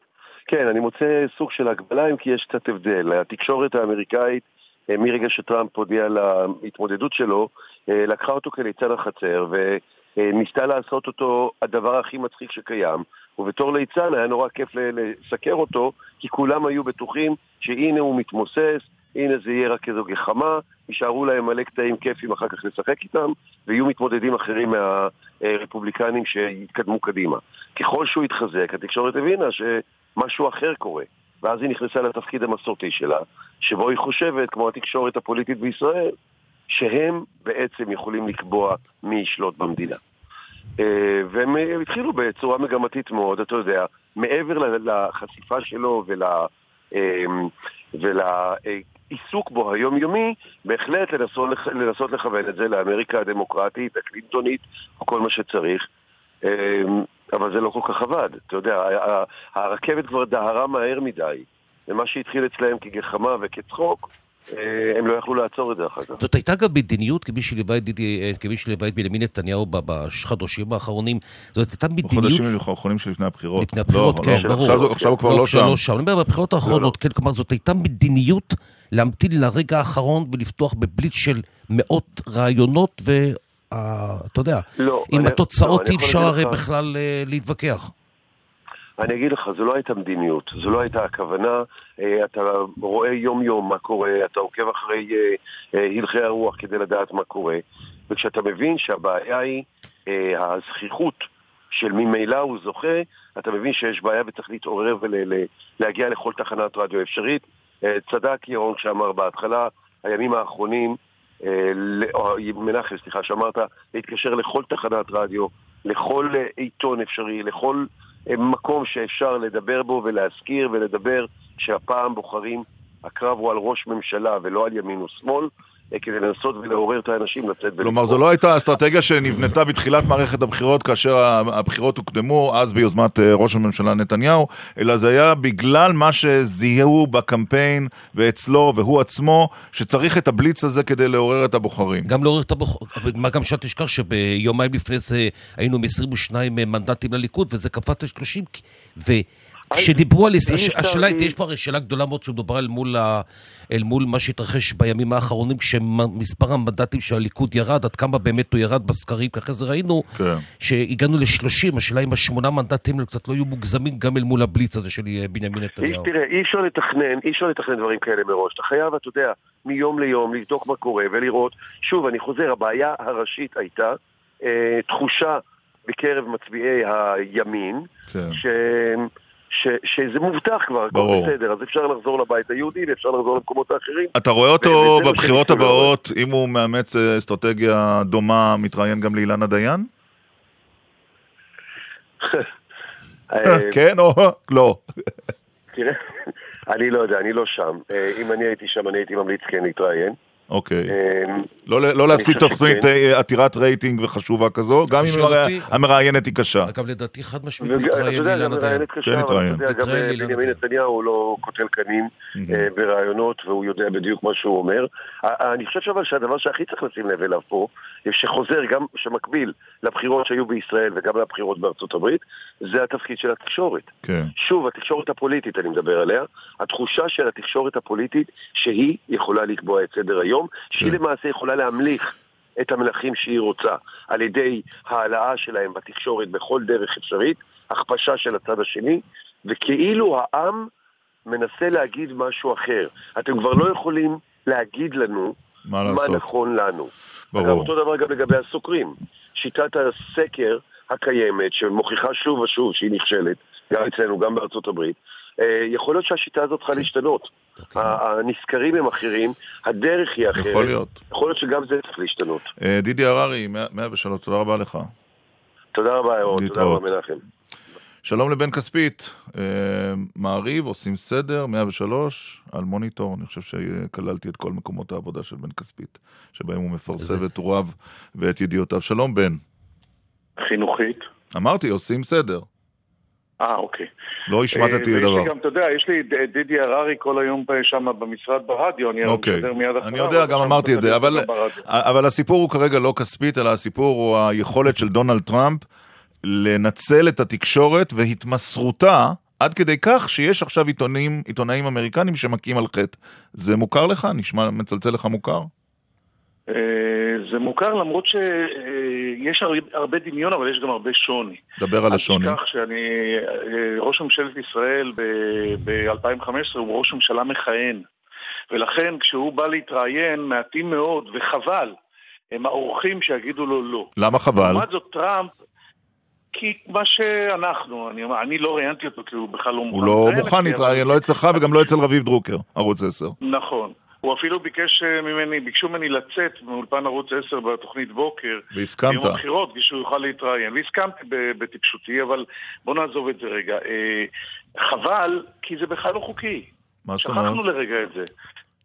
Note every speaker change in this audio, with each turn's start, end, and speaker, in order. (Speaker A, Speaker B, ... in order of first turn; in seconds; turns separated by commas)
Speaker A: 0.5-36.1, Speaker A: 36.7-40.0, Speaker A: 40.8-55.9, Speaker A: 56.5-66.2, Speaker B: 66.2-72.5, Speaker C: 72.0-75.8, Speaker B: 73.6-87.9, Speaker A: 74.2-75.1, Speaker A: 76.7-76.9, Speaker A: 84.8-86.6, Speaker A: 89.0-128.2, Speaker C: 127.8-142.1, Speaker B: 142.1-160.1, Speaker A: 149.7-151.3, Speaker C: 160.2-160.4, Speaker B: 160.6-166.1, Speaker A: 165.8-185.9, Speaker C: 178.1-178.4, Speaker C: 180.9-181.3, Speaker C: 184.2-189.9, Speaker A: 192.2-192.5, Speaker A: 193.3-193.8, Speaker C: 193.5-194.8, Speaker A: 195.7-200.2, Speaker C: 200.5-200.9, Speaker A: 200.9-201.5, Speaker C: 201.7-206.7, Speaker A: 202.1-202.9, Speaker B: 204.9-205.8, Speaker B: 206.6-208.9, Speaker A: 207.6-223.9, Speaker C: 209.1-209.7, Speaker B: 209.6-210.6, Speaker C: 212.4-212.7, Speaker C: 224.0-224.3, Speaker A: 224.4-240.7, Speaker A: 241.3-262.5, Speaker C: 245.7-246.2, Speaker C: 247.3-247.7, Speaker B: 257.6-258.0, Speaker C: 260.3-261.0, Speaker C: 262.6-264.9, Speaker A: 265.7-267.2, Speaker C: 266.3-266.9, Speaker C: 268.1-279.4, Speaker D: 280.4-281.0, Speaker C: 281.3-282.5, Speaker D: 283.4-283.9, Speaker C: 284.3-285.3, Speaker D: 284.5-291.6, Speaker C: 289.0-295.6, Speaker C: 296.2-305.5, Speaker D: 306.5-317.9, Speaker C: 311.6-312.4, Speaker D: 318.5-321.8, Speaker D: 322.4-325.4, Speaker C: 324.0-324.6, Speaker D: 326.3-331.7, Speaker C: 329.7-333.2, Speaker D: 333.2-344.1, Speaker C: 338.5-339.2, Speaker D: 344.6-346.5, Speaker C: 346.9-347.4, Speaker D: 347.0-348.1